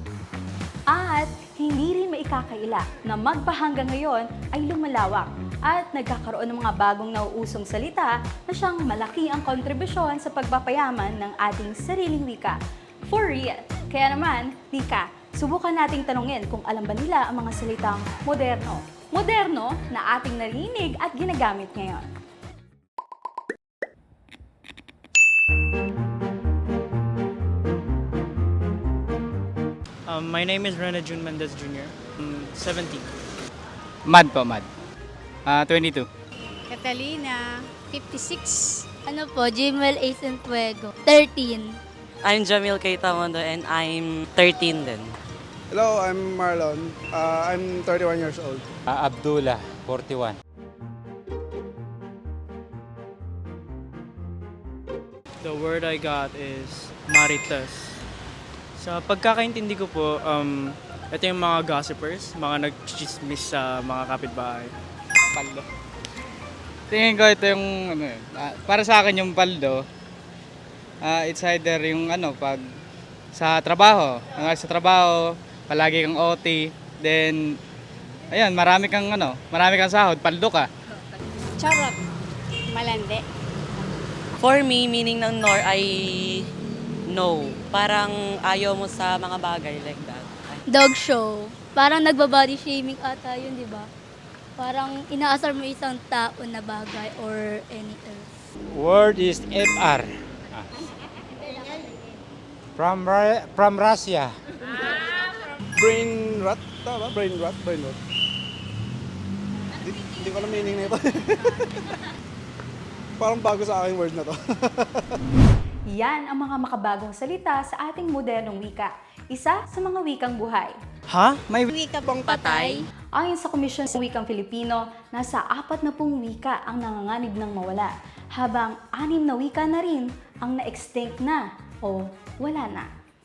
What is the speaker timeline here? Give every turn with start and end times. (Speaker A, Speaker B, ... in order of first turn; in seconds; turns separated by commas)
Speaker A: 0.9-22.1, Speaker B: 30.1-33.2, Speaker C: 34.1-34.7, Speaker C: 35.5-36.1, Speaker D: 36.7-38.9, Speaker E: 39.0-41.8, Speaker F: 42.2-45.1, Speaker G: 45.7-48.7, Speaker H: 48.9-50.4, Speaker B: 55.4-58.0, Speaker B: 58.8-64.7, Speaker C: 65.3-65.7, Speaker C: 66.9-69.8, Speaker C: 71.0-72.6, Speaker C: 73.3-77.6, Speaker C: 78.3-80.7, Speaker D: 81.6-82.0, Speaker D: 82.7-83.2, Speaker F: 84.4-86.5, Speaker F: 87.1-90.6, Speaker E: 90.7-93.9, Speaker E: 94.6-98.3, Speaker H: 98.7-100.7, Speaker H: 102.8-104.3, Speaker G: 105.8-108.0, Speaker G: 109.8-111.9, Speaker G: 113.2-115.2, Speaker A: 115.9-120.8, Speaker B: 121.1-121.4, Speaker D: 121.7-122.8, Speaker F: 122.3-122.8, Speaker A: 123.2-132.9